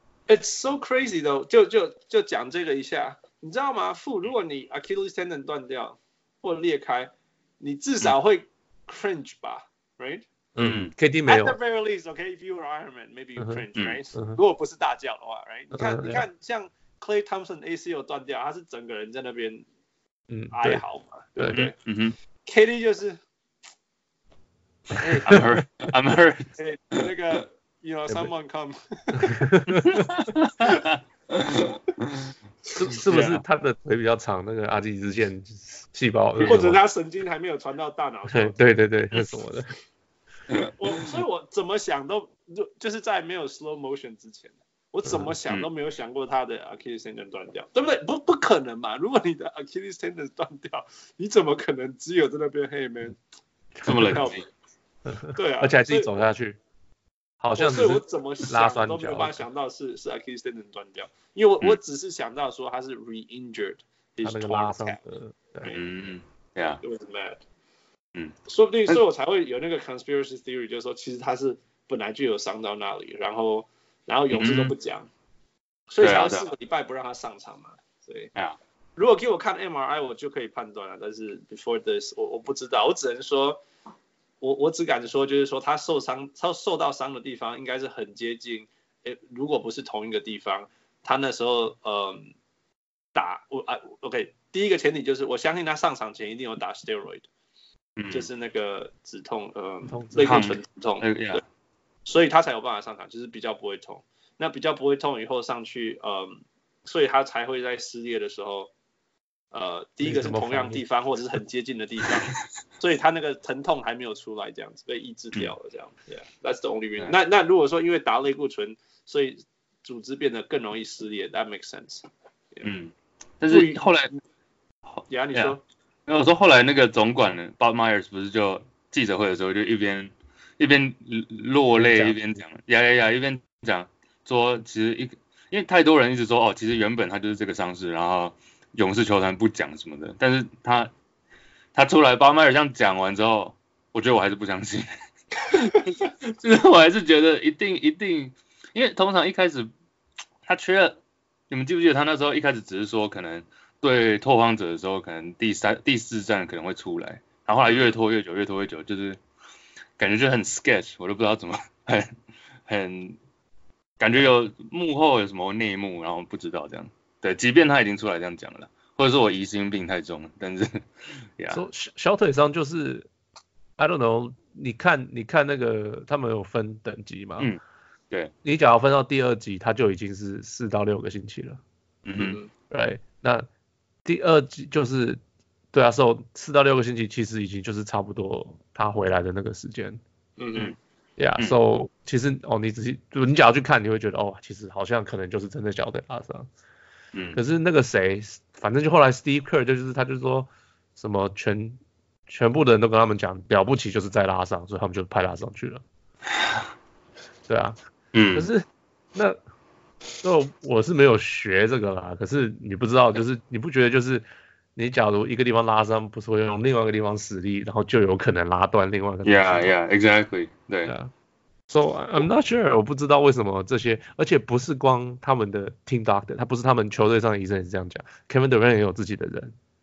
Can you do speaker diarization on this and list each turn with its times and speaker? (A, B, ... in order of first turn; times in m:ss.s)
0:00.3-0:10.3 A
0:10.6-0:11.6 B
0:10.6-0:10.9 C
0:11.3-0:19.6 A
0:13.4-0:13.6 B
0:15.7-0:16.2 B
0:20.3-0:20.8 B
0:20.5-0:21.7 A
0:21.4-0:21.6 B
0:21.5-0:22.2 C
0:22.4-0:23.2 A
0:25.0-0:25.4 A
0:25.2-0:26.5 C
0:26.6-0:29.5 A
0:29.2-0:30.2 B
0:30.0-0:32.2 C
0:32.8-0:36.8 B
0:33.0-0:33.4 C
0:36.4-0:38.6 A
0:38.3-0:39.7 B
0:40.7-0:53.2 A
0:53.8-0:54.4 C
0:54.0-0:54.4 A
0:55.0-0:56.6 B
0:55.3-0:56.1 A
0:57.4-0:59.4 B
0:57.6-1:05.0 A
1:04.2-1:05.7 B
1:05.6-1:06.8 C
1:06.8-1:07.4 A
1:08.5-1:15.1 A
1:14.3-1:14.7 C
1:15.9-1:18.3 A
1:16.0-1:16.5 C
1:19.0-1:23.6 A
1:24.4-1:32.3 A
1:33.1-1:37.3 A
1:38.0-1:38.3 C
1:38.1-1:41.4 A
1:39.8-1:40.4 B
1:40.2-1:41.4 C
1:42.0-1:48.7 A
1:49.5-2:02.7 A
1:50.0-1:50.8 B
2:02.6-2:04.1 C
2:03.5-2:03.9 A
2:04.9-2:05.6 C
2:05.1-2:05.6 A
2:06.1-2:20.9 C
2:11.8-2:12.2 B
2:21.7-2:24.9 C
2:25.5-2:29.7 C
2:30.4-2:39.2 C
2:40.0-2:42.1 C
2:42.7-2:43.2 C
2:44.0-2:50.8 C
2:51.4-2:51.6 C
2:51.5-2:53.1 B
2:53.8-2:57.5 B
2:58.4-3:01.6 B
3:02.0-3:02.4 C
3:02.2-3:02.5 A
3:02.7-3:03.5 B
3:04.0-3:05.2 B
3:05.7-3:10.0 B
3:10.4-3:10.7 A
3:11.2-3:16.5 B
3:17.1-3:17.4 C
3:17.3-3:25.8 B
3:27.5-3:27.8 B
3:28.1-3:28.5 C
3:28.3-3:29.4 B
3:30.2-3:34.2 B
3:34.8-3:39.7 B
3:39.2-3:40.9 C
3:40.8-3:41.1 B
3:41.7-3:49.5 B